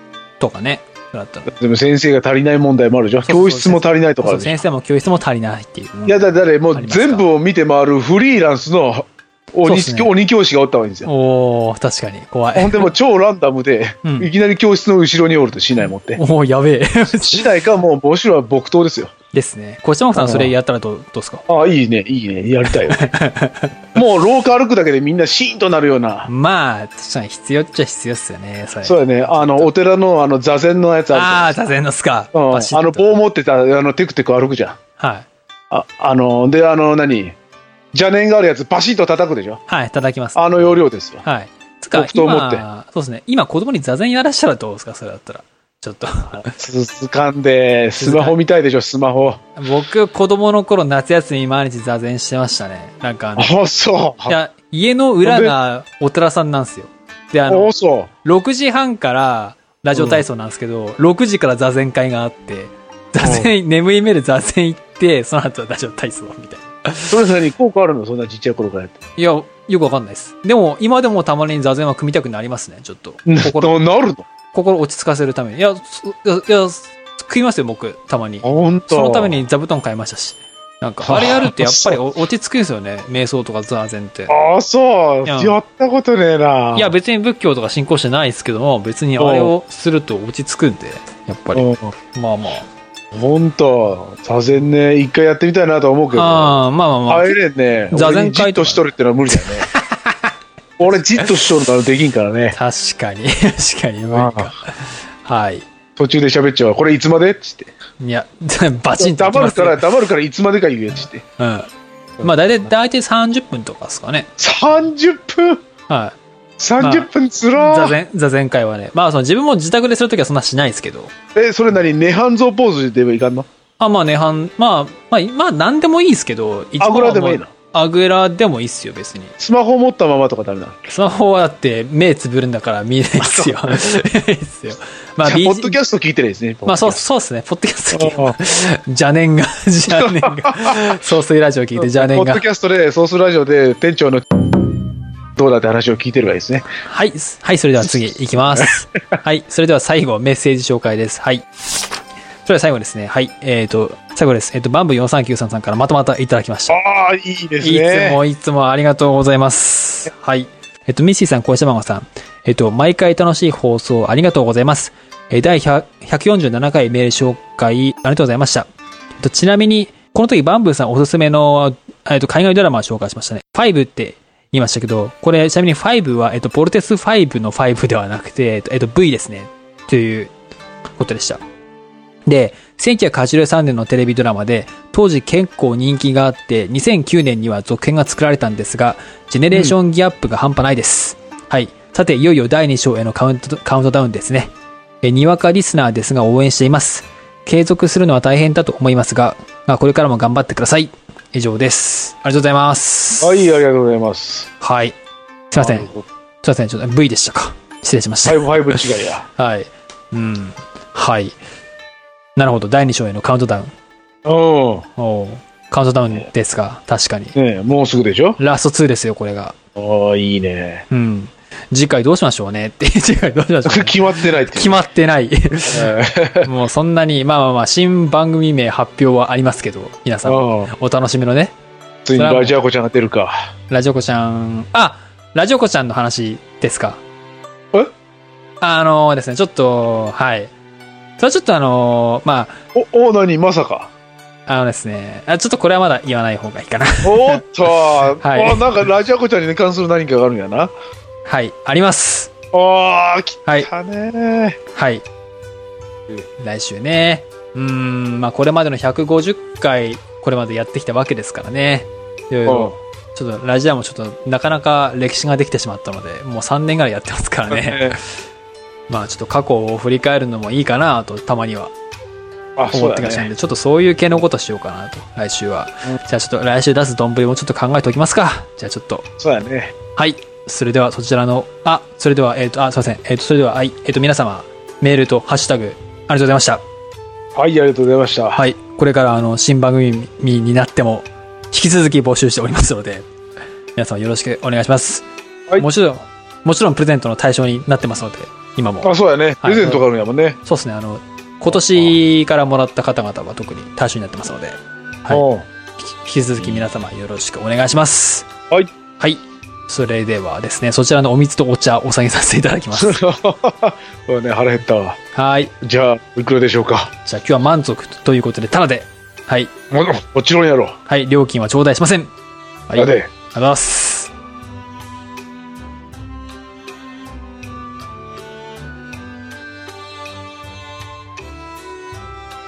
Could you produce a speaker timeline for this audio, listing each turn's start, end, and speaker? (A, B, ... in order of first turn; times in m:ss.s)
0:00.4-0:01.5 A
0:01.5-0:04.6 B
0:03.2-0:07.3 A
0:06.0-0:11.1 B
0:09.6-0:10.1 A
0:11.0-0:12.9 A
0:12.5-0:16.2 B
0:14.0-0:14.3 A
0:16.2-0:17.5 A
0:17.1-0:19.1 B
0:19.3-0:21.4 A
0:20.1-0:20.5 B
0:21.5-0:23.0 B
0:22.7-0:23.8 A
0:23.9-0:26.3 B
0:26.3-0:29.7 A
0:28.8-0:31.6 B
0:31.1-0:33.2 A
0:32.3-0:34.8 B
0:35.0-0:35.3 A
0:35.7-0:37.4 B
0:37.9-0:39.6 B
0:39.7-0:46.6 A
0:40.3-0:41.2 B
0:41.9-0:42.6 B
0:46.3-0:49.5 B
0:48.0-0:48.4 A
0:49.6-0:53.5 A
0:53.4-0:54.3 B
0:54.3-0:57.7 A
0:55.2-0:55.5 B
0:57.5-0:58.1 B
0:58.2-1:07.2 A
0:59.9-1:00.2 B
1:03.2-1:03.5 B
1:07.1-1:09.0 B
1:09.2-1:13.7 A
1:13.3-1:14.2 B
1:14.5-1:24.4 A
1:18.4-1:19.4 B
1:21.0-1:22.0 B
1:24.3-1:26.9 B
1:25.2-1:25.6 A
1:26.7-1:32.7 A
1:29.2-1:29.5 B
1:31.5-1:31.9 B
1:33.1-1:39.7 B
1:36.1-1:37.4 A
1:37.9-1:40.3 A
1:40.8-1:42.6 B
1:40.9-1:41.4 A
1:42.5-1:45.6 A
1:44.1-1:44.5 B
1:46.0-1:47.7 B
1:48.0-1:49.8 A
1:49.0-1:51.2 B
1:51.4-1:51.7 A
1:52.2-1:54.3 A
1:54.4-1:55.6 B
1:55.9-1:56.2 A
1:56.6-1:58.0 B
1:56.8-2:01.1 A
2:01.3-2:03.5 B
2:03.8-2:09.4 A
2:06.8-2:07.5 B
2:09.4-2:10.9 B
2:10.9-2:15.8 A
2:13.2-2:13.8 B
2:15.2-2:17.0 B
2:16.6-2:22.4 A
2:17.9-2:18.4 B
2:19.9-2:21.0 B
2:21.8-2:24.4 B
2:25.4-2:26.7 B
2:26.8-2:31.4 A
2:32.4-2:36.8 A
2:36.7-2:38.2 B
2:37.6-2:48.7 A
2:49.2-3:00.3 A
3:01.0-3:01.4 A
3:02.3-3:14.5 A
3:09.5-3:09.8 B
3:15.0-3:23.6 A
3:23.2-3:24.5 B
3:24.6-3:25.0 A
3:25.5-3:25.9 A
3:25.5-3:26.1 B
3:26.4-3:28.8 A
3:28.2-3:29.2 B
3:29.4-3:31.4 A
3:32.4-3:33.7 A
3:34.2-3:34.9 B
3:35.0-3:37.4 A
3:37.3-3:38.4 B
3:38.4-3:39.6 A
3:39.8-3:40.8 B
3:40.9-3:45.9 A
3:43.6-3:44.8 B
3:45.7-3:46.5 B
3:46.4-3:51.5 A
3:50.2-3:50.7 B
3:52.0-3:53.5 B
3:52.1-3:52.6 A
3:53.7-3:57.0 A
3:58.6-4:00.5 A
4:01.2-4:02.6 A
4:02.7-4:03.9 B
4:04.5-4:08.7 A
4:07.0-4:10.7 B
4:11.2-4:12.3 A
4:12.5-4:14.6 B
4:14.7-4:15.0 A
4:16.4-4:28.0 A
4:22.5-4:22.8 B
4:27.5-4:28.0 B
4:28.9-4:31.7 A
4:32.6-4:33.3 B
4:32.7-4:39.0 A
4:39.2-4:39.7 B
4:39.9-4:46.6 A
4:47.3-4:48.4 B
4:48.4-4:53.0 A
4:53.8-4:55.0 A
4:55.6-4:59.8 A
4:58.8-5:00.4 B
5:00.4-5:05.2 A
5:01.5-5:01.9 B
5:05.1-5:05.4 B
5:05.8-5:08.3 A
5:09.0-5:13.0 A
5:12.7-5:15.0 B
5:15.1-5:15.5 A
5:15.6-5:16.9 B
5:17.0-5:19.5 A
5:19.7-5:20.8 B
5:20.9-5:22.1 A
5:22.7-5:24.1 A
5:22.8-5:23.1 B